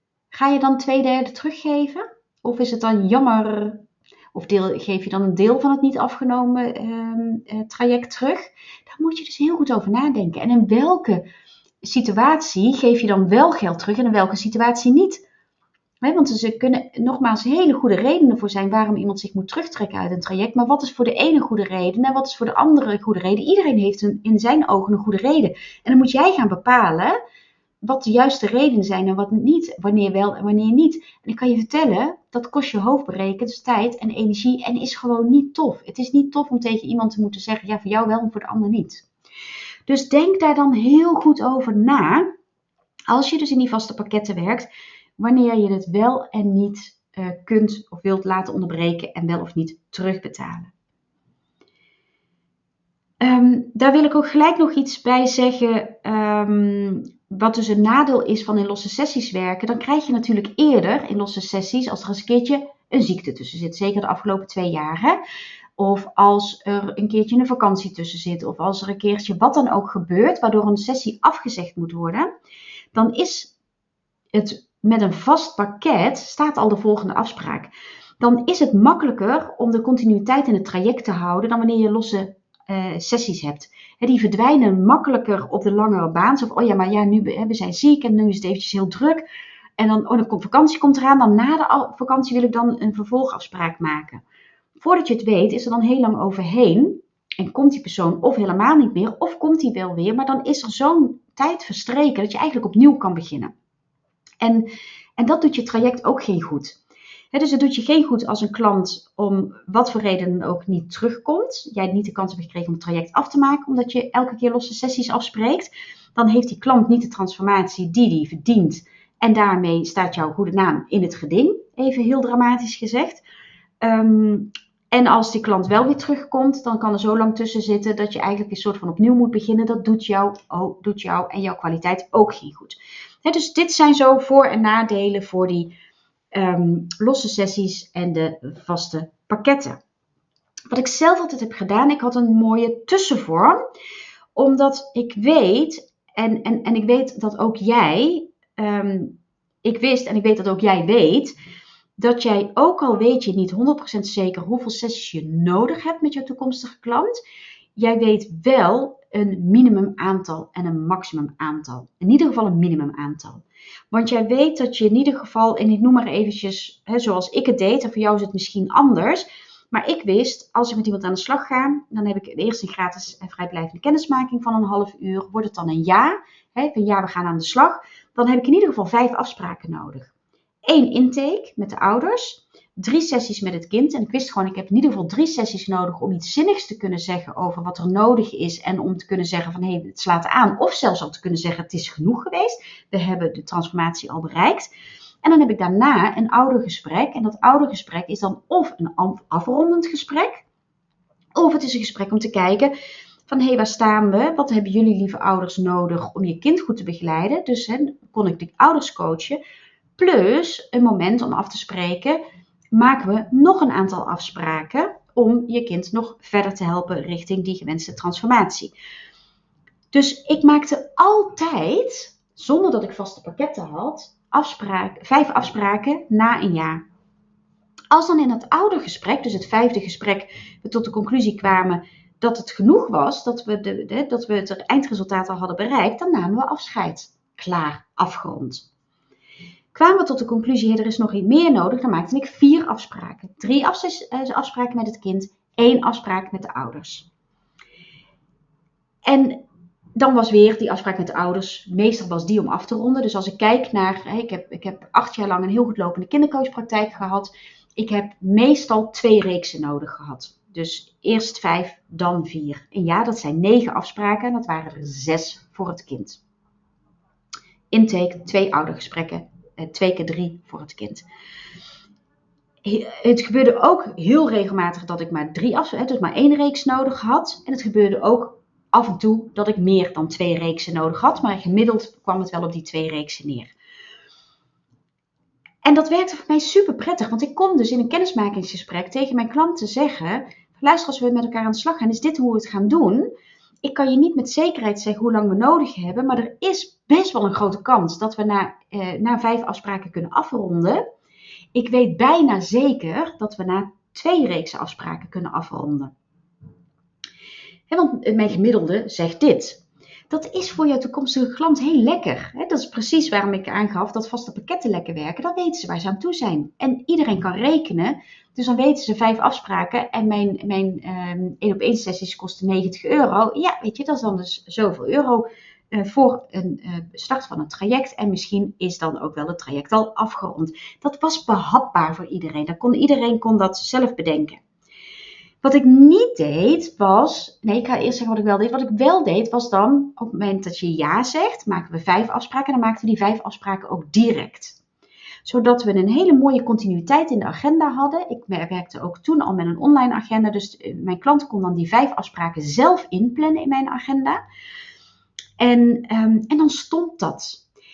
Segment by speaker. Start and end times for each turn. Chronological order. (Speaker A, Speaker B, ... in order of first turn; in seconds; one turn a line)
Speaker A: 0.3-11.3
Speaker A: 11.8-15.2
Speaker A: 16.0-27.1
Speaker A: 27.8-39.0
Speaker A: 39.9-42.3
Speaker A: 43.1-50.7
Speaker A: 53.2-65.2
Speaker A: 65.8-72.3
Speaker A: 72.9-73.5
Speaker A: 74.3-89.2
Speaker A: 89.8-94.2
Speaker A: 94.8-103.5
Speaker A: 104.4-106.8
Speaker A: 107.3-123.2
Speaker A: 123.8-135.7
Speaker A: 136.3-139.8
Speaker A: 140.7-143.6
Speaker A: 144.3-151.3
Speaker A: 152.0-157.2
Speaker A: 157.8-180.1
Speaker A: 180.7-194.7
Speaker A: 195.2-200.4
Speaker A: 201.3-202.7
Speaker A: 203.3-209.4
Speaker A: 210.0-212.2
Speaker A: 212.7-218.7
Speaker A: 219.9-226.8
Speaker A: 227.9-238.7
Speaker A: 239.7-247.1
Speaker A: 249.1-249.4
Speaker A: 250.0-266.2
Speaker A: 267.7-271.0
Speaker A: 272.6-283.5
Speaker A: 285.6-293.1
Speaker A: 293.6-300.8
Speaker A: 301.5-305.9
Speaker A: 307.7-334.4
Speaker A: 335.4-344.6
Speaker A: 345.2-354.2
Speaker A: 355.4-357.4